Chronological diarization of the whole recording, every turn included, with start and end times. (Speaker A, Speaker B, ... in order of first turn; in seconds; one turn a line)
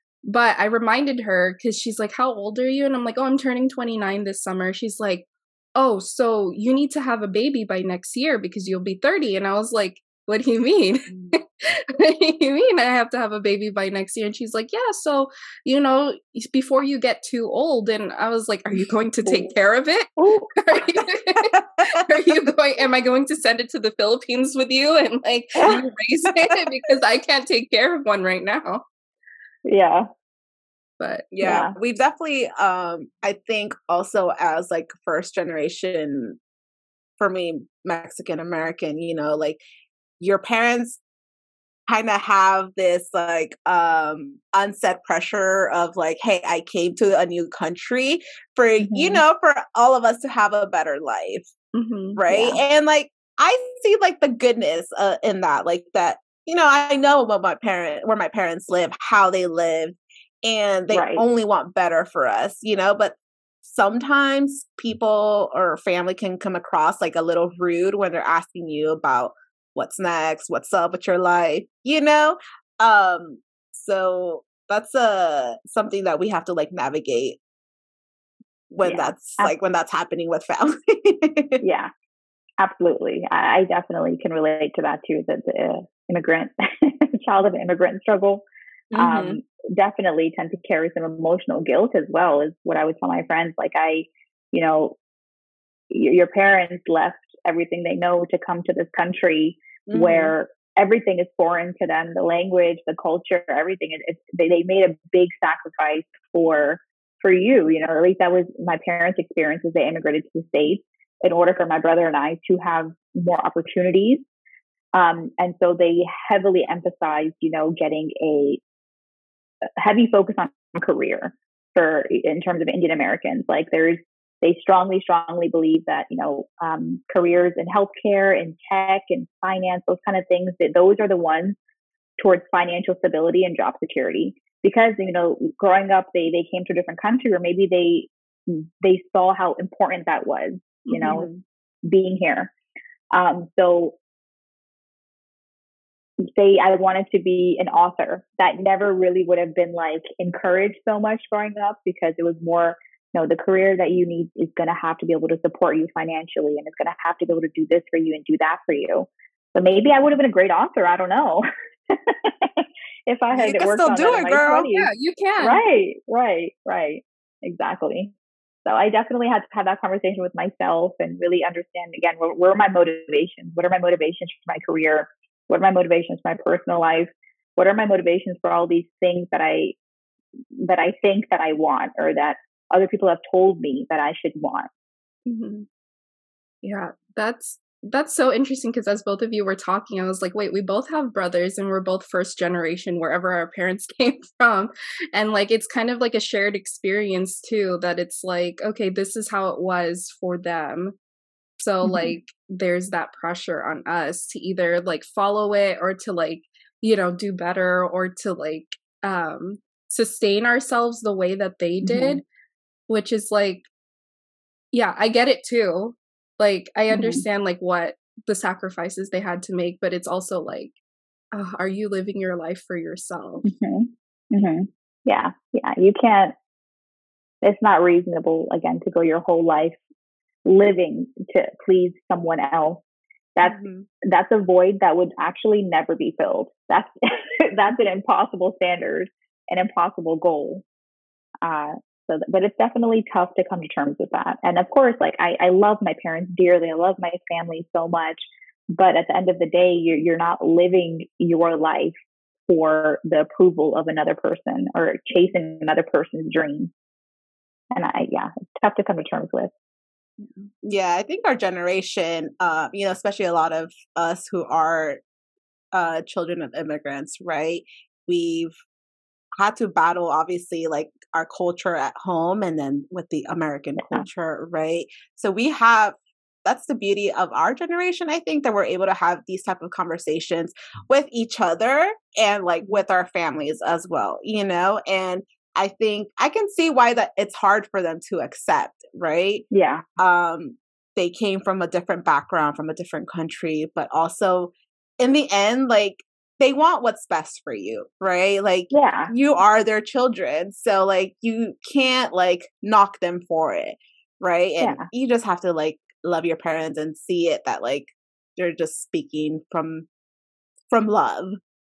Speaker A: 0.2-28.8
Speaker B: 20.2-20.5
Speaker C: 21.4-22.0
Speaker B: 29.6-30.1
Speaker A: 31.0-31.3
Speaker C: 31.3-36.4
Speaker B: 31.4-31.7
Speaker C: 37.2-39.6
Speaker C: 40.2-41.0
Speaker C: 41.9-51.5
Speaker B: 48.8-49.2
Speaker A: 51.7-52.2
Speaker C: 52.1-77.4
Speaker B: 52.3-52.6
Speaker B: 60.9-61.2
Speaker C: 78.7-81.6
Speaker B: 78.8-79.5
Speaker B: 81.6-81.9
Speaker B: 82.6-88.4
Speaker C: 88.9-89.4
Speaker B: 89.0-95.0
Speaker B: 95.9-114.2
Speaker C: 99.9-100.3
Speaker B: 114.9-118.6
Speaker B: 119.8-131.6
Speaker B: 132.2-141.3
Speaker A: 140.9-141.3
Speaker B: 141.8-142.5
Speaker B: 143.1-143.9
Speaker B: 146.2-164.9
Speaker C: 163.3-164.7
Speaker A: 164.7-165.6
Speaker B: 165.4-168.1
Speaker B: 168.6-179.8
Speaker B: 180.5-184.7
Speaker A: 185.2-185.7
Speaker A: 186.6-201.0
Speaker A: 201.6-212.2
Speaker B: 201.8-202.2
Speaker B: 211.8-212.2
Speaker A: 212.9-213.7
Speaker A: 214.7-220.7
Speaker B: 216.9-217.2
Speaker A: 221.3-223.5
Speaker B: 223.4-226.3
Speaker B: 227.4-229.8
Speaker B: 230.4-232.8
Speaker B: 233.3-240.6
Speaker C: 233.4-233.9
Speaker B: 241.4-256.7
Speaker B: 257.7-259.5
Speaker C: 260.6-265.0
Speaker C: 265.7-268.6
Speaker C: 269.4-289.4
Speaker B: 273.8-274.1
Speaker B: 289.5-289.8
Speaker C: 290.0-309.9
Speaker B: 298.7-299.1
Speaker B: 304.6-304.9
Speaker C: 310.7-311.4